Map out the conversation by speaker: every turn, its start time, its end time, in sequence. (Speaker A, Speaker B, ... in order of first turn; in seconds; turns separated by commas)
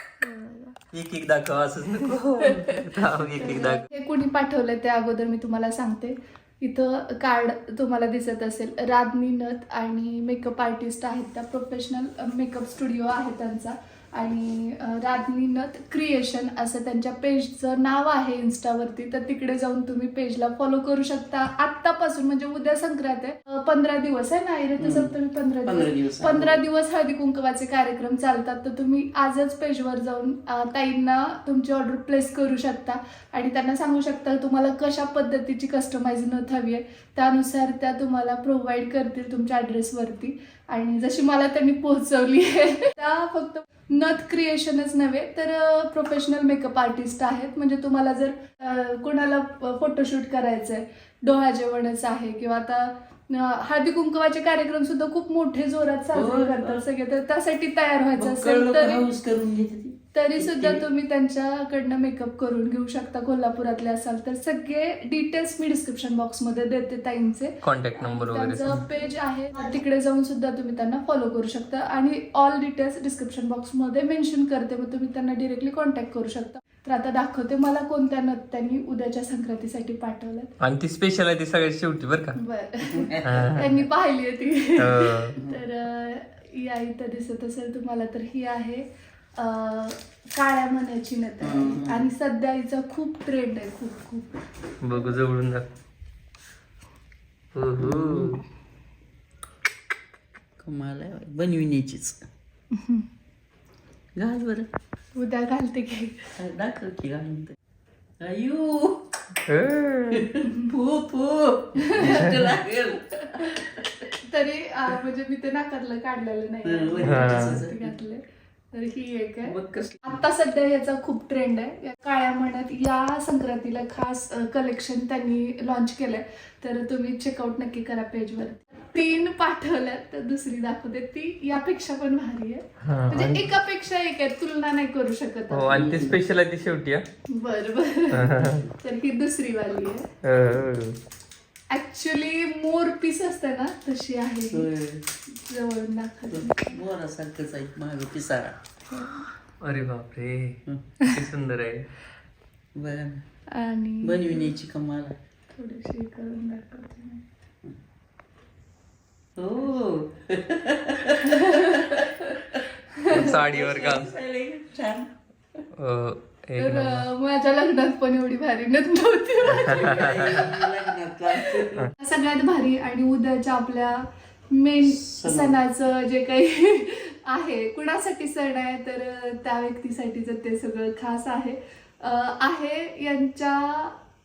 Speaker A: 0.2-0.8, Speaker B: 0.9-3.8, Speaker A: 2.4-2.8, Speaker A: 3.4-59.0, Speaker C: 24.8-25.1, Speaker C: 25.6-26.6, Speaker C: 56.1-56.9, Speaker C: 58.2-60.8, Speaker A: 60.1-80.5, Speaker B: 67.6-68.8, Speaker B: 80.6-82.4, Speaker A: 82.3-88.8, Speaker C: 82.8-83.6, Speaker B: 83.2-83.8, Speaker B: 84.8-85.3, Speaker A: 89.4-95.2, Speaker C: 91.4-92.1, Speaker B: 94.8-95.7, Speaker B: 97.5-98.4, Speaker C: 97.8-98.4, Speaker C: 100.6-102.2, Speaker A: 102.7-103.1, Speaker C: 104.1-104.7, Speaker A: 105.2-106.3, Speaker C: 106.3-107.5, Speaker C: 108.2-109.2, Speaker B: 109.5-110.3, Speaker C: 110.1-114.1, Speaker A: 111.8-112.3, Speaker B: 112.0-112.4, Speaker A: 113.3-113.6, Speaker A: 114.2-135.9, Speaker C: 116.6-118.0, Speaker B: 117.0-117.6, Speaker C: 119.5-120.2, Speaker B: 132.8-133.5, Speaker B: 135.5-137.0, Speaker C: 135.7-136.2, Speaker A: 137.3-140.1, Speaker B: 138.1-138.6, Speaker C: 138.3-138.7, Speaker B: 140.2-141.0, Speaker A: 141.7-144.7, Speaker C: 144.5-145.0, Speaker A: 145.3-146.8, Speaker C: 146.3-148.6, Speaker A: 148.9-149.3, Speaker B: 149.6-151.9, Speaker C: 152.8-153.2, Speaker A: 153.5-154.5, Speaker C: 154.0-155.2, Speaker A: 155.5-157.2, Speaker C: 159.4-165.1, Speaker A: 161.2-162.2, Speaker A: 162.9-163.4, Speaker B: 163.1-164.1, Speaker B: 165.8-167.1, Speaker A: 166.6-183.9, Speaker C: 169.4-171.9, Speaker B: 169.6-170.3, Speaker C: 174.8-175.6